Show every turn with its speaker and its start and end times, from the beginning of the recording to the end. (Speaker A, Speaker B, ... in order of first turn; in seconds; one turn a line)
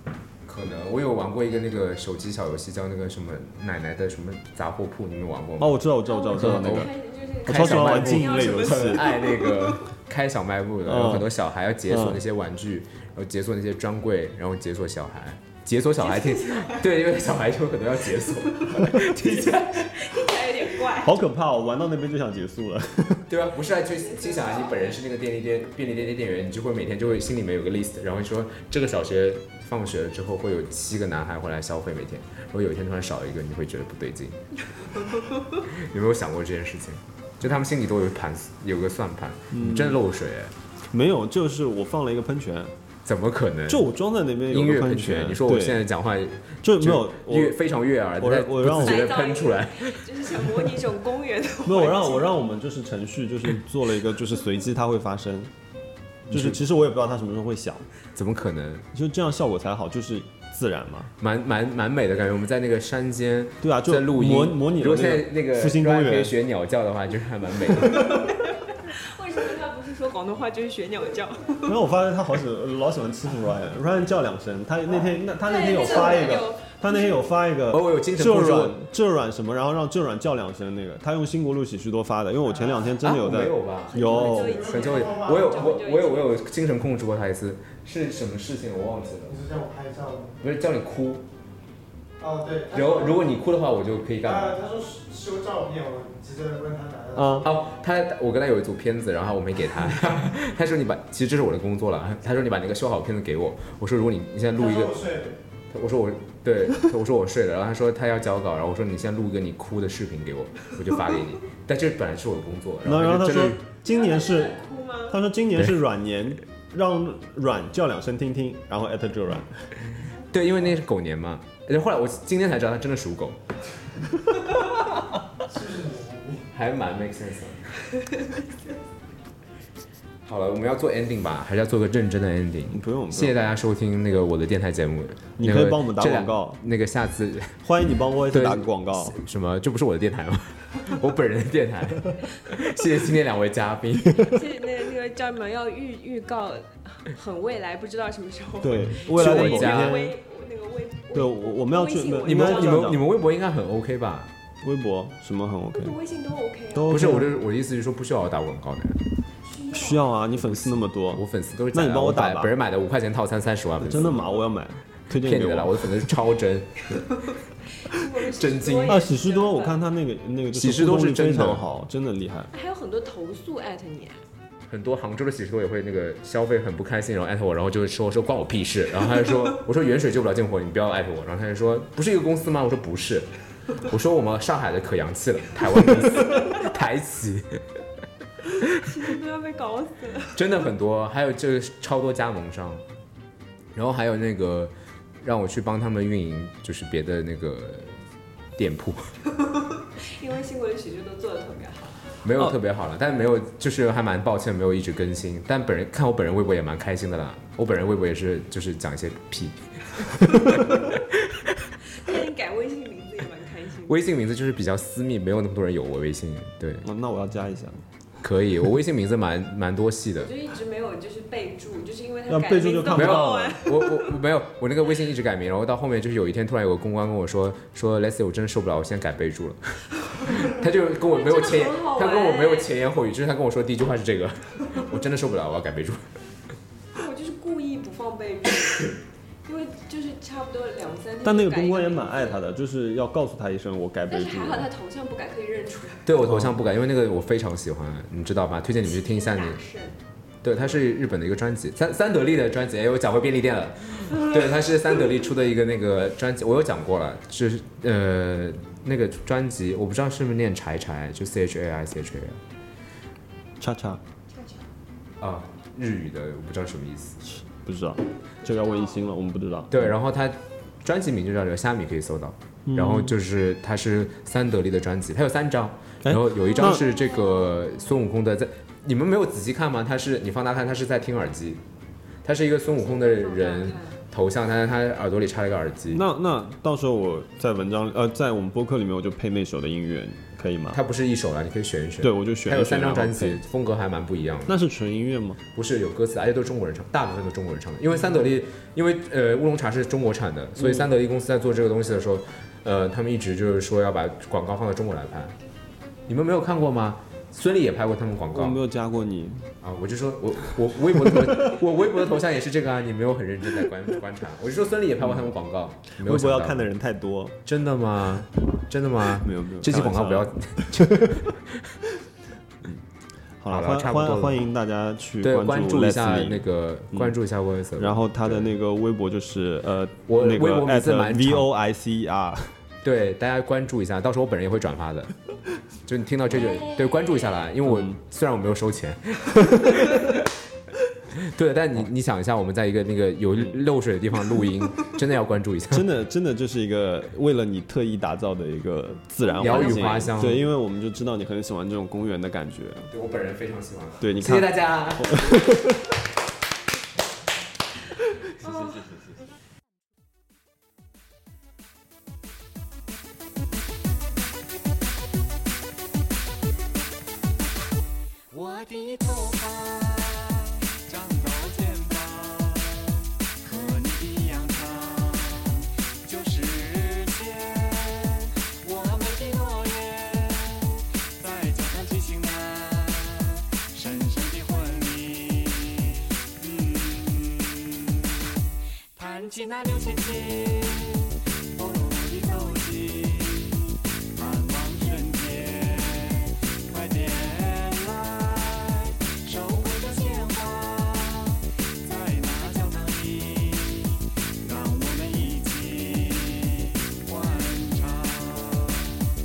Speaker A: 0.4-6.9
Speaker B: 5.6-6.9
Speaker C: 6.0-9.8
Speaker B: 7.5-9.2
Speaker A: 7.5-20.0
Speaker B: 10.8-11.3
Speaker B: 11.9-12.2
Speaker C: 16.0-16.9
Speaker C: 18.8-21.1
Speaker B: 21.0-23.3
Speaker A: 23.3-34.4
Speaker C: 23.7-25.0
Speaker C: 34.7-35.4
Speaker A: 35.5-40.5
Speaker B: 39.5-40.0
Speaker B: 40.9-42.7
Speaker A: 43.0-43.9
Speaker B: 43.7-45.8
Speaker A: 44.5-50.5
Speaker B: 46.6-47.6
Speaker B: 48.2-49.2
Speaker C: 48.8-52.3
Speaker B: 51.6-55.5
Speaker A: 56.3-56.6
Speaker B: 56.3-57.9
Speaker A: 58.1-58.9
Speaker B: 58.9-61.1
Speaker A: 61.2-68.2
Speaker B: 63.6-66.3
Speaker B: 67.8-68.2
Speaker C: 68.7-71.8
Speaker B: 71.6-84.6
Speaker C: 75.4-77.2
Speaker A: 77.7-78.8
Speaker D: 82.5-83.0
Speaker A: 83.0-89.4
Speaker C: 83.9-86.3
Speaker D: 84.2-85.6
Speaker D: 89.2-90.4
Speaker A: 90.4-91.2
Speaker D: 92.2-93.3
Speaker A: 92.7-94.6
Speaker D: 94.2-97.7
Speaker B: 97.2-97.4
Speaker A: 97.4-105.0
Speaker D: 104.5-105.4
Speaker A: 105.7-113.6
Speaker B: 112.8-114.6
Speaker C: 113.8-115.2
Speaker B: 115.1-119.7
Speaker A: 120.3-123.4
Speaker D: 125.4-126.4
Speaker A: 126.5-127.7
Speaker A: 130.2-137.6
Speaker B: 132.7-133.5
Speaker B: 135.4-136.6
Speaker B: 137.6-139.2
Speaker A: 138.3-144.4
Speaker C: 144.2-152.9
Speaker B: 148.6-150.1
Speaker A: 149.1-150.0
Speaker B: 151.1-153.1
Speaker A: 152.2-154.3
Speaker B: 154.6-155.9
Speaker C: 155.7-157.2
Speaker B: 156.7-157.4
Speaker A: 156.9-159.0
Speaker C: 159.4-160.1
Speaker B: 159.7-162.5
Speaker A: 160.3-164.3
Speaker B: 163.8-166.1
Speaker A: 165.2-167.0
Speaker C: 167.8-169.8
Speaker A: 168.2-169.0
Speaker B: 168.8-172.5
Speaker A: 170.5-171.6
Speaker C: 172.5-174.2
Speaker A: 174.7-187.6
Speaker C: 188.5-190.4
Speaker A: 190.3-192.8
Speaker A: 193.7-198.0
Speaker A: 198.6-199.1
Speaker C: 199.4-202.0
Speaker A: 202.2-211.7
Speaker C: 211.9-214.0
Speaker A: 213.8-216.8
Speaker B: 216.8-217.8
Speaker A: 218.2-220.3
Speaker C: 220.2-224.1
Speaker B: 222.3-223.6
Speaker A: 222.9-236.1
Speaker C: 231.1-232.7
Speaker C: 236.9-238.9
Speaker C: 239.4-242.4
Speaker B: 241.2-244.7
Speaker C: 244.1-246.1
Speaker A: 246.0-249.6
Speaker B: 246.2-246.5
Speaker C: 248.8-249.9
Speaker A: 250.4-262.4
Speaker B: 263.6-264.0
Speaker C: 264.3-264.7
Speaker A: 265.2-267.2
Speaker B: 267.2-269.9
Speaker C: 268.4-269.1
Speaker A: 269.7-281.6
Speaker B: 272.7-273.1
Speaker B: 276.0-276.9
Speaker C: 276.6-277.5
Speaker A: 282.2-286.0
Speaker C: 283.2-284.0
Speaker B: 285.9-290.8
Speaker A: 290.7-294.5
Speaker B: 292.0-293.4
Speaker B: 294.5-295.4
Speaker A: 295.5-305.3
Speaker B: 300.6-300.9
Speaker A: 306.1-308.6
Speaker B: 308.3-309.5
Speaker A: 309.6-316.7
Speaker B: 310.9-311.5
Speaker B: 315.0-315.3
Speaker B: 316.0-317.4
Speaker A: 317.4-321.6
Speaker B: 319.2-321.2
Speaker B: 323.4-327.2
Speaker A: 323.5-324.4
Speaker A: 325.2-328.5
Speaker B: 327.7-332.6
Speaker A: 330.1-331.4
Speaker A: 332.8-335.1
Speaker A: 335.9-340.3
Speaker C: 336.4-336.7
Speaker B: 337.6-338.0
Speaker A: 341.1-345.8
Speaker B: 345.7-352.9
Speaker C: 349.2-350.1
Speaker A: 349.4-350.4
Speaker A: 352.9-355.5
Speaker B: 354.0-355.8
Speaker E: 368.3-387.8
Speaker E: 388.9-408.9